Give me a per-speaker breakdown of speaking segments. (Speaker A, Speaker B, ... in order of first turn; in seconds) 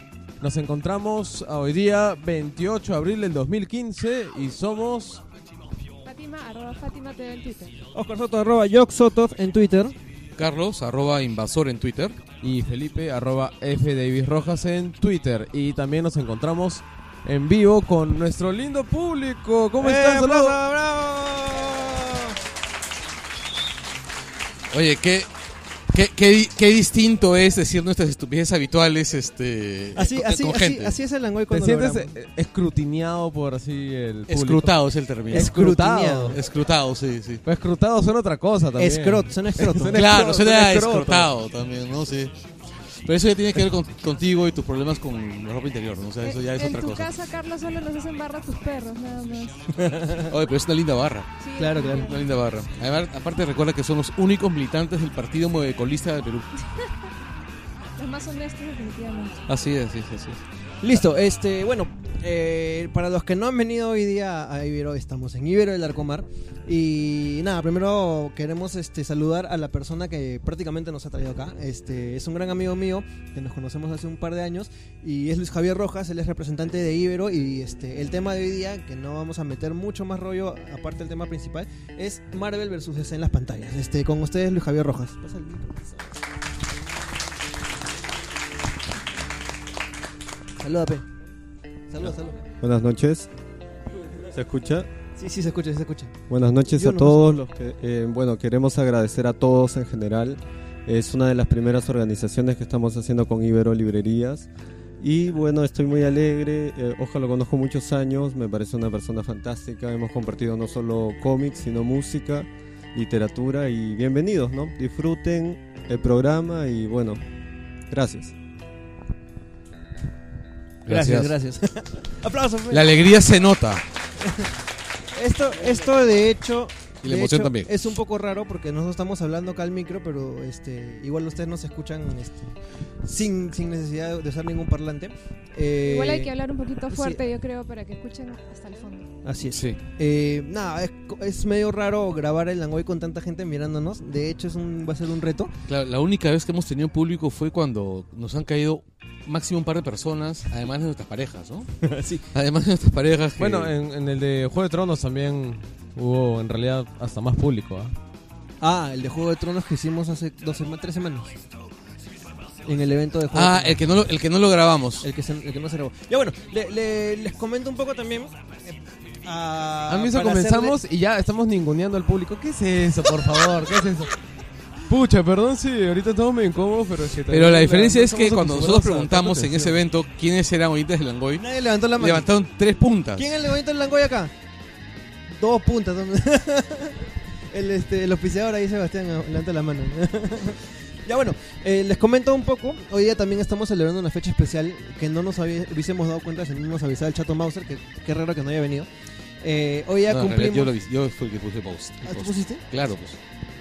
Speaker A: 0.4-5.2, 12.4-20.6, 31.5-34.7, 35.3-36.4, 37.4-41.3, 153.4-157.9, 169.9-174.1, 174.9-179.8
Speaker B: 6.0-7.7, 46.2-49.6, 51.4-52.2, 58.0-59.4, 135.8-139.1
Speaker C: 7.9-9.9, 19.8-22.3, 29.9-32.1, 35.3-36.4, 38.8-40.2, 49.8-50.3, 51.6-52.2, 60.8-86.1, 90.6-91.0, 91.9-92.4, 95.2-96.1, 96.7-97.3, 120.9-123.0, 125.1-136.3, 136.9-137.2, 139.2-145.5, 151.8-152.2, 158.6-161.3, 162.7-163.8, 165.0-170.8, 181.4-182.2, 183.2-184.3, 185.3-187.0, 187.5-198.9, 199.4-200.7, 202.0-202.6
Speaker D: 10.4-12.2, 24.7-25.3, 25.9-30.9, 34.3-35.5, 36.3-37.4, 39.9-42.3, 43.0-47.1, 50.3-51.3, 52.0-56.5, 59.5-60.4, 120.9-121.3, 122.7-123.8, 127.0-127.7, 139.5-139.8, 145.7-151.7, 152.3-153.7, 163.3-165.1, 177.3-181.4, 182.0-183.3, 200.1-203.2
Speaker E: 92.6-93.3, 94.3-94.9, 96.3-104.5, 105.0-117.2, 117.9-118.3